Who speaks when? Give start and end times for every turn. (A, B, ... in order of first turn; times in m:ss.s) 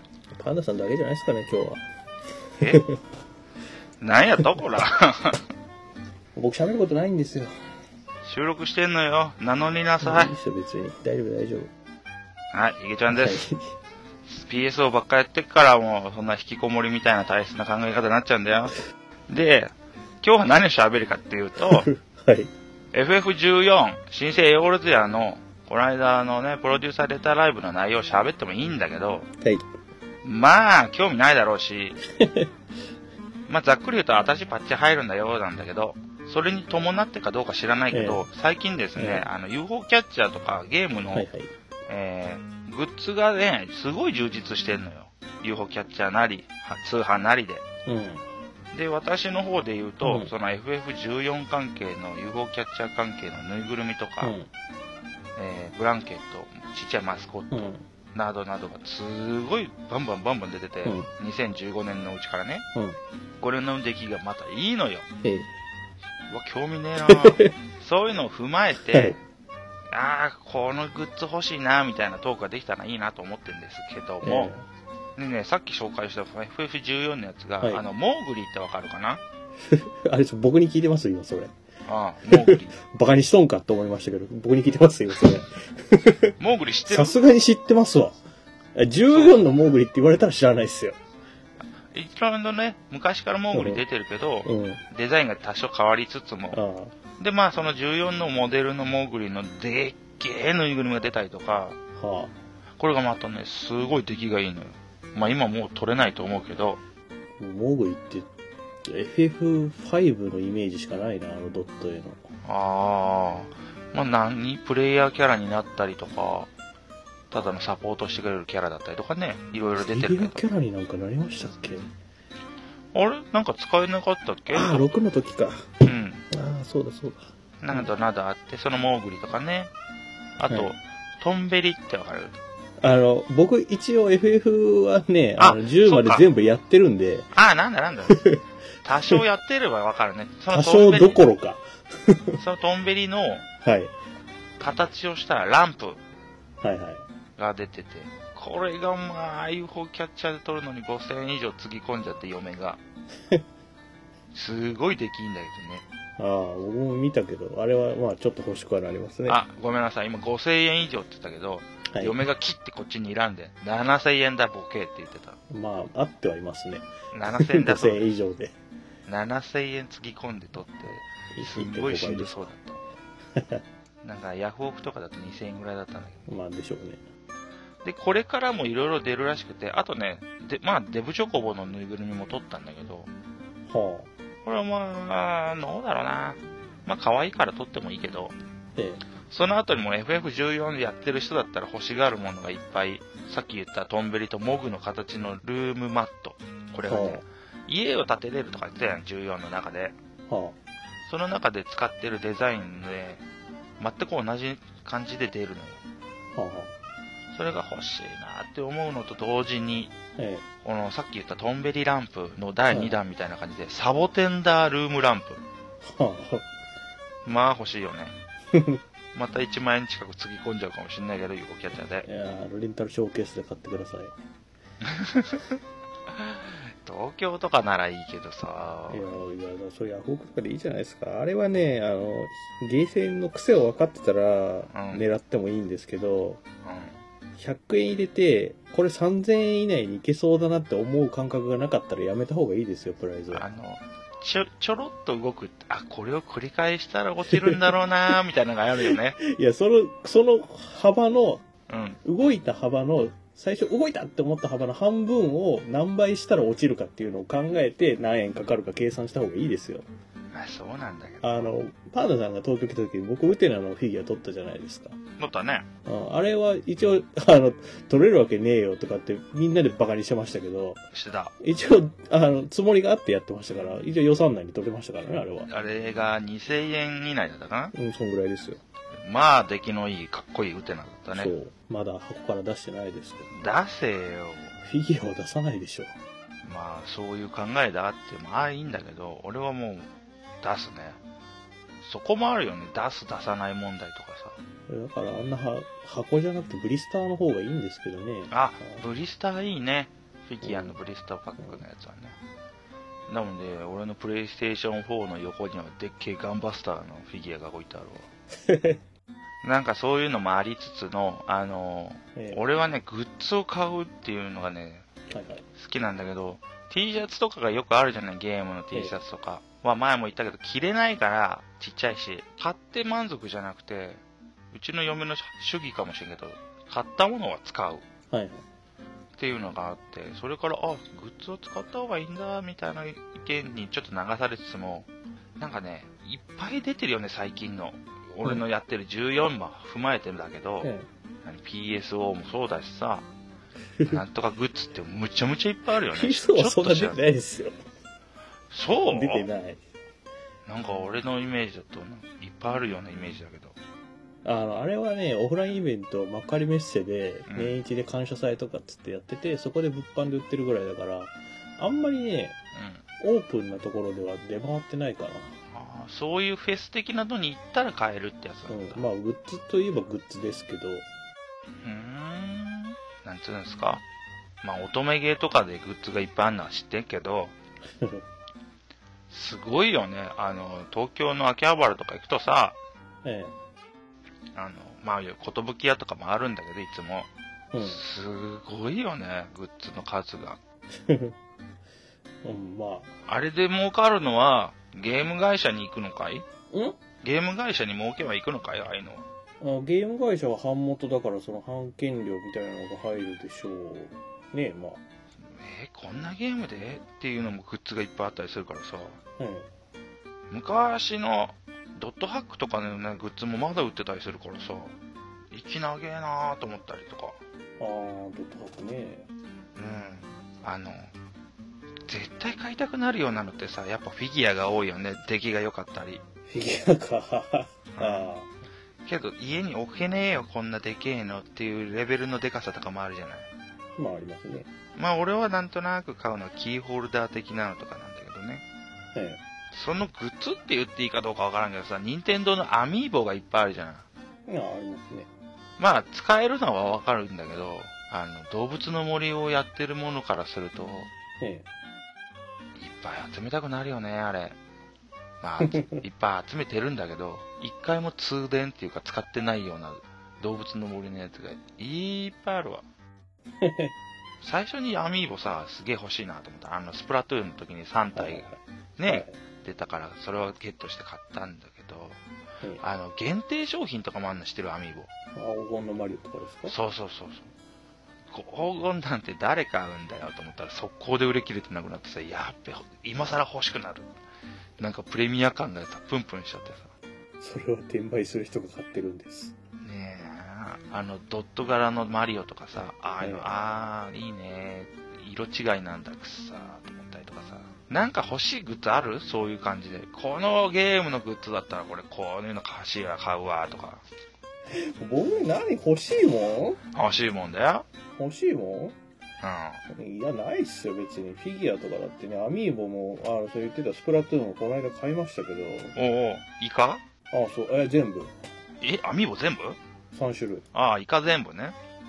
0:00.4-0:01.8 A
0:02.6-0:02.8 B
0:02.6-0:02.9 A
0:04.0-0:05.4 B
0:06.4-0:07.6 A
0:08.2-0:10.3 B
0:10.0-0:11.7 A
0:12.5-0:13.5 B
0:13.1-0:13.6 A
0:14.3-0:21.9 B
0:21.6-0:22.5 A
0:22.9-0:29.3 B
0:30.2-0:32.0 B
0:32.1-0:32.5 A
0:33.5-0:41.3 B
0:37.9-0:38.3 A
0:39.0-0:39.3 A
0:41.1-0:41.5 A
0:41.9-0:47.6 B
0:47.9-0:48.2 A
0:48.7-0:54.4 B
0:50.0-0:50.3 A
0:54.2-0:54.5 A
0:55.4-0:57.6 B
0:57.5-0:57.8 A
0:58.1-1:02.7 B
1:03.4-1:05.1 B
1:05.2-1:05.5 A
1:06.3-1:09.2 B
1:07.0-1:07.5 A
1:08.9-1:09.2 A
1:09.9-1:14.5 B
1:14.2-1:14.7 A
1:15.2-1:19.2 B
1:19.6-1:21.5 A
1:21.9-1:22.7 B
1:22.3-1:26.3 A
1:26.4-1:27.2 B
1:26.9-1:28.2 A
1:28.8-1:31.0 A
1:29.1-1:29.4 B
1:31.9-1:36.6 B
1:33.5-1:33.8 A
1:34.4-1:34.8 A
1:36.5-1:37.0 A
1:37.2-1:41.8 B
1:42.0-1:42.4 A
1:42.8-1:46.8 B
1:47.4-1:48.3 A
1:48.8-1:52.2 A
1:52.4-1:56.5 B
1:57.3-2:00.4 B
1:59.7-2:01.9 A
2:02.9-2:04.9 B
2:04.5-2:07.9 A
2:05.8-2:06.3 B
2:07.6-2:09.7 B
2:10.4-2:12.4 B
2:12.8-2:17.3 A
2:15.4-2:16.2 B
2:17.3-2:18.2 B
2:18.1-2:18.4 A
2:18.8-2:21.2 B
2:20.5-2:22.4 A
2:22.4-2:23.4 B
2:23.6-2:23.9 A
2:24.6-2:26.0 B
2:26.6-2:27.0 A
2:27.4-2:32.8 B
2:34.3-2:35.8 B
2:36.2-2:39.4 A
2:39.3-2:45.4 B
2:41.9-2:42.2 A
2:45.5-2:48.6 A
2:47.1-2:48.0 B
2:49.1-2:52.8 B
2:50.7-2:52.5 A
2:53.4-2:53.6 A
2:54.0-2:56.3 B
2:56.3-2:57.0 A
2:57.8-3:03.1 B
3:03.7-3:04.1 A
3:04.4-3:08.4 B
3:08.8-3:09.0 A
3:09.3-3:20.0 B
3:16.8-3:17.2 A
3:20.3-3:20.6 A
3:21.1-3:23.2 B
3:23.8-3:25.8 B
3:26.3-3:26.7 A
3:27.3-3:29.9 B
3:30.2-3:30.4 A
3:30.6-3:35.4 B
3:35.8-3:36.4 A
3:37.2-3:38.2 B
3:38.5-3:38.8 A
3:39.1-3:42.1 B
3:42.0-3:44.1 A
3:44.8-3:45.6 B
3:46.1-3:49.1 B
3:48.9-3:56.4 A
3:54.7-3:55.0 B
3:56.6-3:57.0 B
3:57.4-4:03.5 A
4:03.3-4:09.2 B
4:07.3-4:07.6 A
4:08.8-4:11.4 A
4:11.7-4:12.0 B
4:12.0-4:19.9 A
4:20.3-4:21.5 B
4:21.2-4:25.0 A
4:25.2-4:25.7 B
4:25.9-4:30.8 A
4:30.9-4:31.3 B
4:31.4-4:35.5 A
4:35.5-4:37.8 B
4:37.7-4:38.6 A
4:39.0-4:41.4 B
4:41.2-4:43.5 A
4:43.3-4:44.6 B
4:44.6-4:46.0 A
4:46.4-4:51.0 B
4:51.8-4:54.4 B
4:54.7-4:58.8 A
4:58.3-5:02.2 B
5:00.4-5:00.8 A
5:03.1-5:08.1 B
5:08.4-5:08.8 A
5:09.4-5:14.9 B
5:12.2-5:12.4 A
5:15.1-5:15.4 A
5:15.6-5:27.8 B
5:28.1-5:28.4 A
5:29.1-5:40.7 B
5:40.6-5:40.9 A
5:41.2-5:43.1 B
5:43.9-5:47.0 B
5:45.9-5:47.6 A
5:48.5-5:49.3 B
5:48.9-5:49.6 A
5:50.5-5:53.6 B
5:54.2-6:02.4 A
5:57.3-5:57.6 B
6:02.5-6:02.8 B
6:03.0-6:05.4 A
6:05.5-6:08.8 B
6:08.5-6:10.9 A
6:11.6-6:13.8 B
6:14.4-6:17.4 B
6:17.8-6:18.0 A
6:19.1-6:22.6 B
6:23.0-6:23.3 A
6:24.4-6:27.1 B
6:27.5-6:27.8 A
6:27.6-6:30.4 B
6:30.8-6:31.2 A
6:32.2-6:32.9 A
6:33.1-6:36.2 B
6:36.5-6:36.8 A
6:37.0-6:39.1 B
6:39.4-6:44.8 A
6:45.3-6:49.0 B
6:49.2-6:49.5 A
6:50.3-6:54.8 B
6:55.3-6:57.2 B
6:57.6-6:59.1 A
6:59.6-7:00.9 B
7:01.9-7:06.0 B
7:06.3-7:08.3 A
7:07.8-7:08.1 B
7:08.8-7:13.3 B
7:13.8-7:14.5 A
7:14.8-7:18.4 B
7:18.9-7:19.2 A
7:19.5-7:23.9 B
7:24.3-7:25.1 A
7:25.6-7:30.9 B
7:31.2-7:31.5 A
7:32.6-7:34.4 B
7:35.2-7:42.6 B
7:35.5-7:35.8 A
7:43.4-7:43.7 A
7:44.2-7:52.0 B
7:47.9-7:49.1 A
7:52.6-7:54.9 B
7:55.1-7:56.6 A
7:56.5-7:57.3 B
7:58.1-8:03.9 B
8:04.6-8:06.7 B
8:07.2-8:09.4 A
8:09.6-8:23.8 B
8:13.0-8:13.3 A
8:24.5-8:26.6 A
8:26.7-8:27.7 B
8:27.9-8:28.8 A
8:29.2-8:29.6 B
8:29.7-8:35.8 A
8:35.8-8:36.8 B
8:37.1-8:38.1 A
8:38.6-8:39.6 B
8:39.9-8:40.4 A
8:40.5-8:41.6 B